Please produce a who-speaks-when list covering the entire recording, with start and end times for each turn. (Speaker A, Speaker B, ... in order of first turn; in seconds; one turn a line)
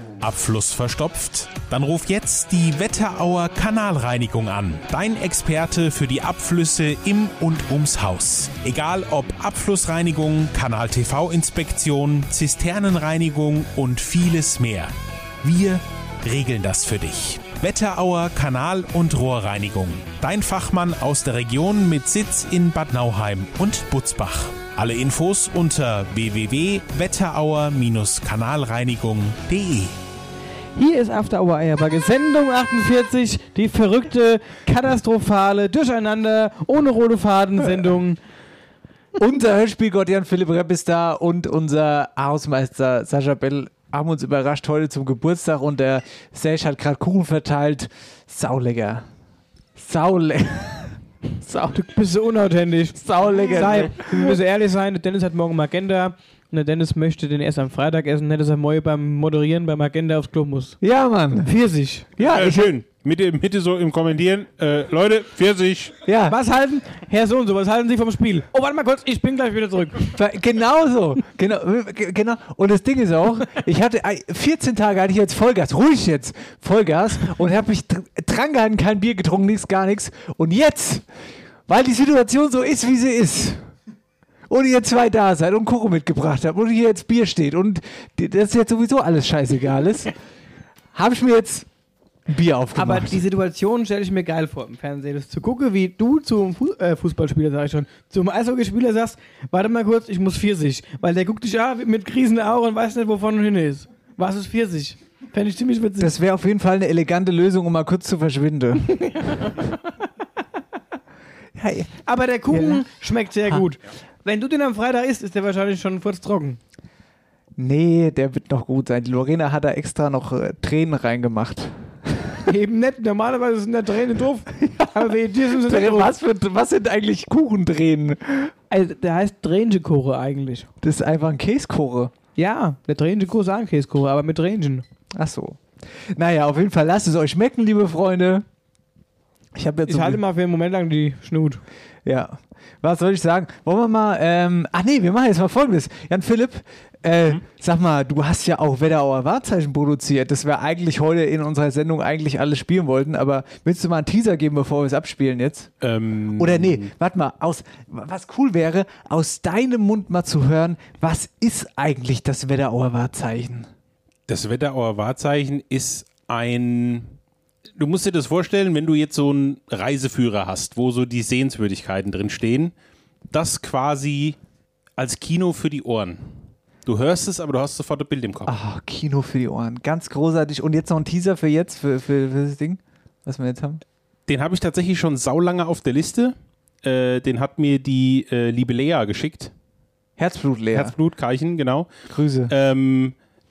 Speaker A: 0.2-29.9
Speaker B: 30.8-38.2
Speaker C: 39.2-49.0
Speaker C: 49.7-50.9
Speaker B: 51.4-60.8
Speaker C: 53.0-54.4
Speaker C: 60.8-61.5
Speaker B: 61.4-62.5
Speaker C: 62.2-62.7
Speaker A: 62.3-66.0
Speaker C: 66.0-66.3
Speaker B: 66.3-70.1
Speaker C: 70.1-81.1
Speaker C: 81.7-83.6
Speaker C: 84.5-90.1
Speaker C: 90.9-91.7
Speaker C: 92.3-93.2
Speaker B: 92.7-106.1
Speaker C: 106.0-108.9
Speaker B: 109.0-109.5
Speaker C: 111.5-112.8
Speaker B: 112.0-116.6
Speaker C: 117.6-122.2
Speaker B: 122.5-126.1
Speaker C: 124.6-128.5
Speaker B: 128.7-130.7
Speaker C: 130.8-132.1
Speaker B: 132.3-134.8
Speaker C: 135.1-138.4
Speaker C: 139.5-140.2
Speaker B: 139.9-141.6
Speaker C: 142.0-155.7
Speaker A: 155.8-156.9
Speaker C: 156.3-163.7
Speaker A: 164.3-167.1
Speaker A: 167.8-172.7
Speaker A: 173.3-174.4
Speaker A: 175.0-176.3
Speaker A: 176.8-178.5
Speaker C: 178.4-183.8
Speaker A: 184.3-189.5
Speaker C: 190.2-190.9
Speaker A: 190.7-191.9
Speaker C: 192.1-192.5
Speaker A: 192.5-193.1